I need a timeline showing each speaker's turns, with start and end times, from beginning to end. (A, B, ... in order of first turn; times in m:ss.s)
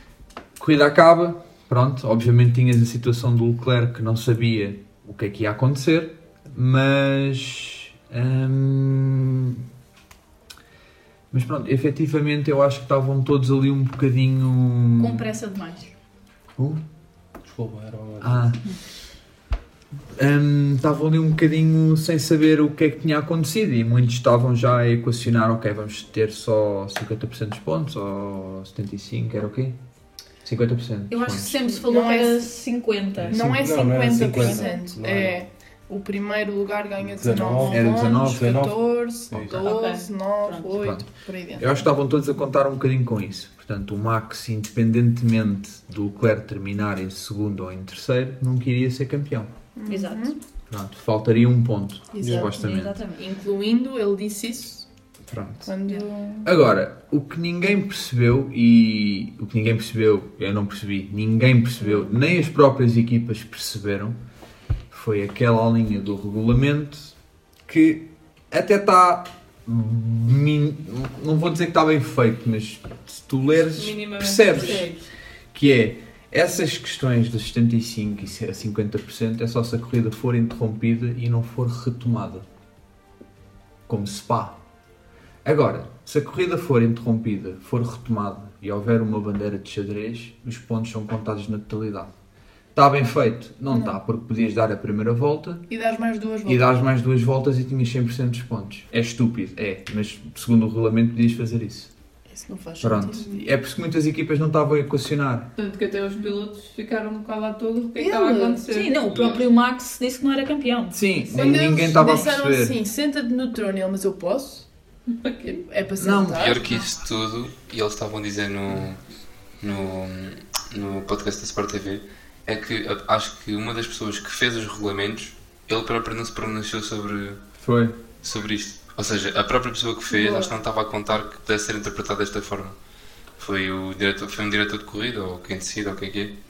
0:00.6-0:09.6 A
0:11.3-0:15.3 A
0:15.0-0:15.9 B
0:16.6-0:16.8 A
0:17.5-0:18.5 C
0:18.2-0:18.8 A
0:20.2-0:29.8 A
0:30.4-0:31.6 A
0:31.1-0:33.4 B
0:31.7-0:32.5 D
0:33.3-0:41.8 D
0:33.3-0:35.4 C
0:34.4-0:34.8 B
0:37.0-0:38.8 C
0:37.7-0:38.7 A
0:39.3-0:39.6 C
0:39.5-0:40.7 B
0:40.8-0:41.0 A
0:41.6-0:49.5 A
0:49.8-0:50.4 D
0:49.9-0:50.4 B
0:50.7-0:53.0 A
0:52.1-0:52.5 D
0:52.2-0:52.5 C
0:52.5-0:53.2 B
0:53.2-0:54.9 D
0:55.3-0:55.7 A
0:55.6-0:56.5 D
0:56.4-1:04.2 A
1:04.9-1:07.1 A
1:07.7-1:14.9 A
1:13.7-1:15.0 E
1:15.5-1:22.5 A
1:23.9-1:24.6 A
1:25.4-1:32.1 A
1:32.8-1:35.7 A
1:35.7-1:36.8 D
1:36.4-1:41.9 A
1:42.3-1:43.4 D
1:42.8-1:45.5 A
1:45.6-1:49.4 E
1:48.0-1:48.6 D
1:48.6-1:51.0 B
1:50.9-1:52.8 A
1:51.3-1:54.7 D
1:55.2-1:55.6 E
1:55.4-1:56.8 D
1:56.0-1:56.6 A
1:56.4-1:59.0 F
1:59.6-2:07.4 F
2:07.6-2:08.0 A
2:08.2-2:12.8 F
2:10.1-2:10.5 D
2:13.4-2:16.3 F